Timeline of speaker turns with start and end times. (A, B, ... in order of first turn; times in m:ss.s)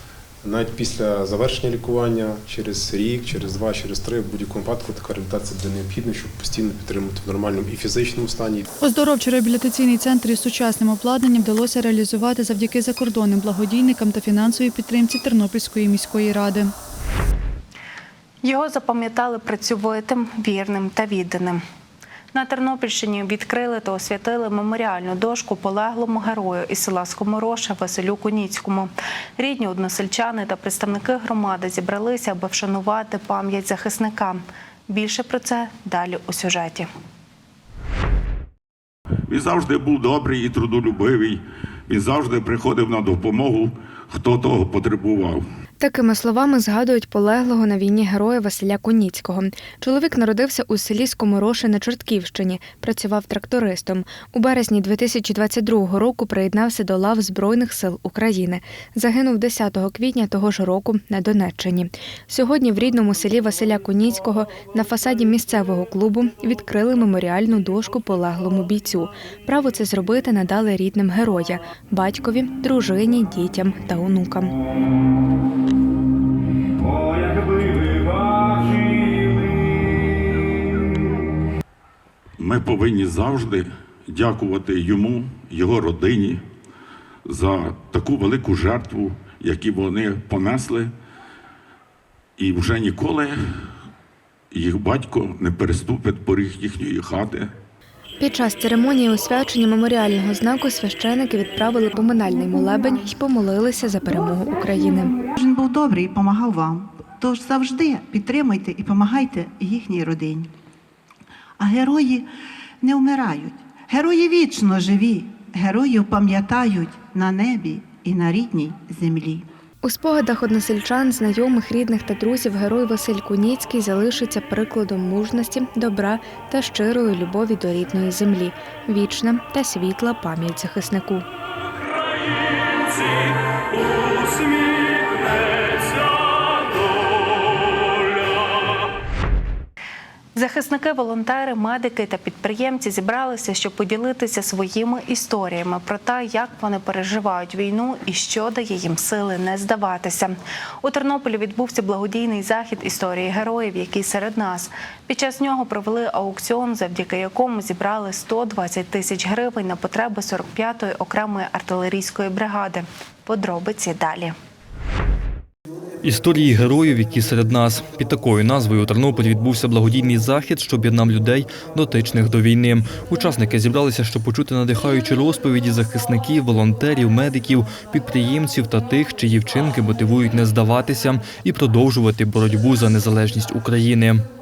0:00.4-0:08.6 A
0:08.8-0:16.7 B
0:18.4-0:21.6 C
0:22.3-0:36.9 C
0:39.3-0:45.4 D
0:45.8-1:14.5 E
1:22.4-1:26.4 D
1:27.3-1:30.9 D
1:32.4-1:33.4 D
1:34.5-1:37.5 D
1:38.2-1:45.2 E
1:45.4-1:50.5 F
1:51.6-1:52.3 F
1:52.8-1:59.5 F
1:59.8-2:11.2 E
2:20.4-2:44.4 C
2:46.0-3:04.2 G